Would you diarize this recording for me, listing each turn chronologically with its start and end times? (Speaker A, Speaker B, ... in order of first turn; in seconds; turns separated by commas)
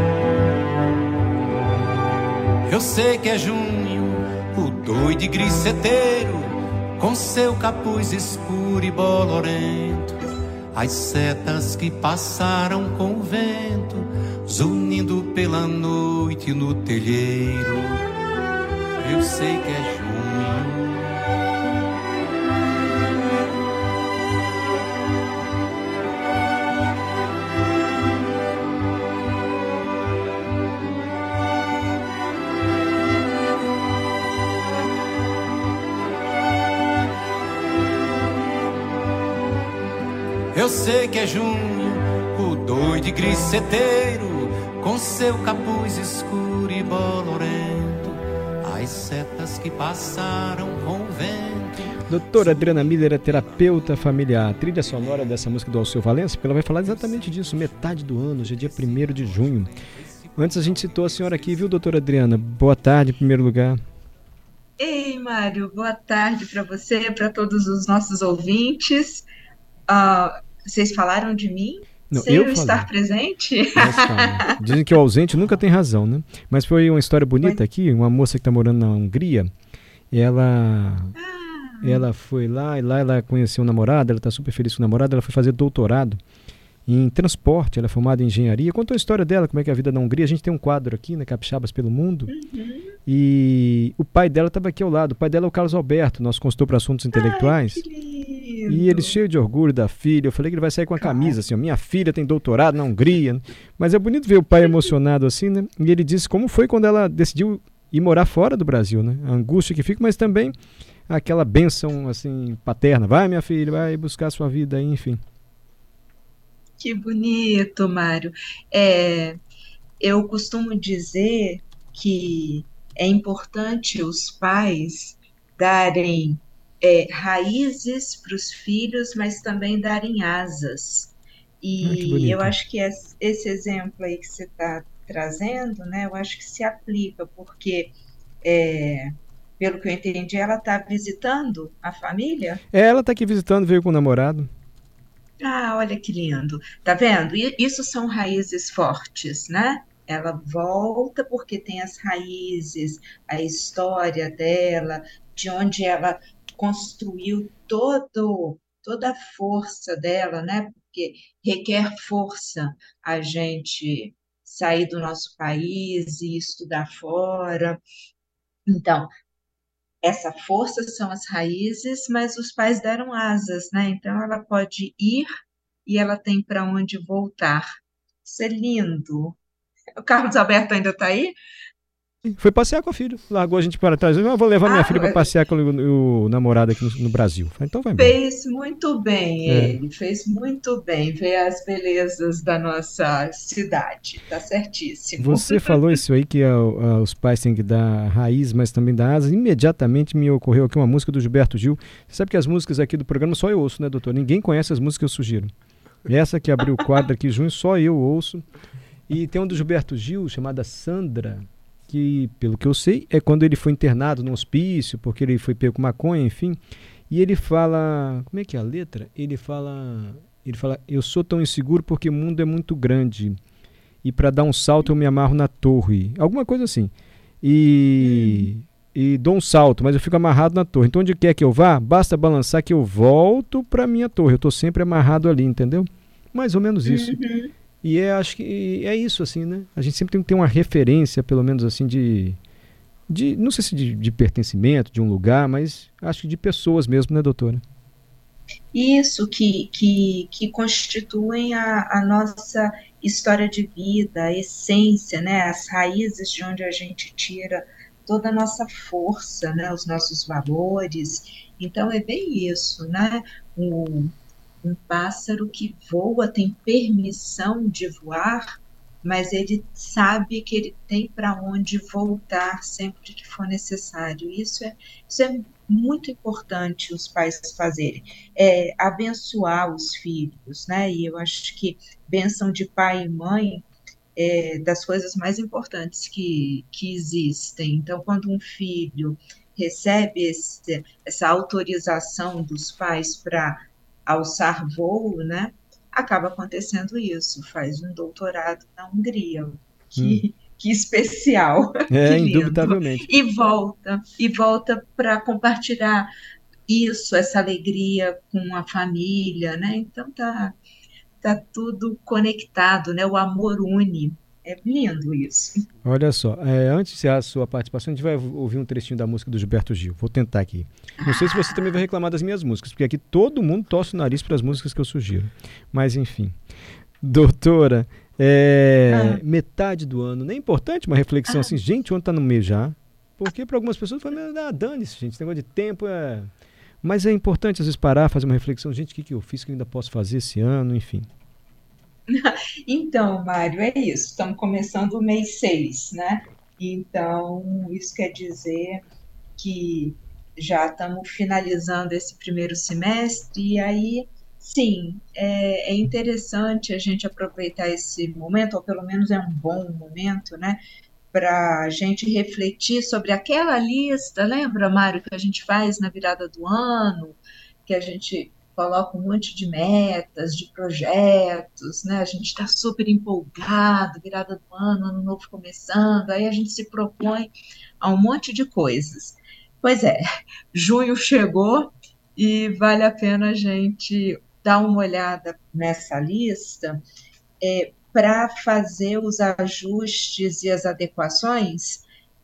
Speaker A: 2.7-10.1, Speaker A: 10.8-17.9, Speaker A: 19.0-20.8, Speaker A: 40.5-51.9, Speaker B: 52.1-59.7, Speaker B: 60.4-63.8, Speaker C: 64.8-69.3, Speaker C: 69.9-74.4, Speaker B: 72.1-72.9, Speaker B: 73.8-79.5, Speaker B: 80.1-81.1, Speaker C: 81.2-82.0, Speaker B: 81.8-86.2, Speaker B: 86.9-92.3, Speaker C: 92.3-92.9, Speaker B: 93.1-97.8, Speaker C: 97.1-99.1, Speaker B: 98.7-110.6, Speaker C: 101.0-101.4, Speaker B: 111.1-115.2, Speaker C: 116.8-119.4, Speaker C: 120.0-142.6, Speaker B: 131.8-132.5, Speaker B: 142.7-144.5, Speaker C: 145.4-167.8, Speaker C: 168.7-169.1, Speaker C: 170.0-175.3, Speaker C: 175.9-177.7, Speaker C: 178.2-179.4, Speaker C: 180.0-181.3, Speaker B: 182.4-188.1, Speaker C: 184.7-185.3, Speaker C: 188.0-195.7, Speaker B: 189.5-189.8, Speaker B: 195.2-205.5, Speaker B: 206.1-208.4, Speaker B: 209.1-223.4, Speaker B: 224.0-237.2, Speaker C: 228.0-228.5, Speaker C: 236.9-237.5, Speaker B: 237.8-242.4, Speaker B: 243.1-247.6, Speaker C: 248.7-283.6, Speaker C: 284.2-306.1, Speaker B: 300.0-300.2, Speaker B: 301.9-303.1, Speaker C: 306.7-310.6, Speaker C: 311.2-315.6, Speaker B: 315.9-326.4, Speaker C: 321.0-321.7, Speaker B: 327.0-336.3, Speaker C: 328.9-329.2, Speaker B: 336.8-341.1, Speaker C: 342.1-348.8, Speaker C: 349.4-360.6, Speaker C: 361.1-380.0, Speaker C: 380.5-386.8, Speaker C: 387.4-391.9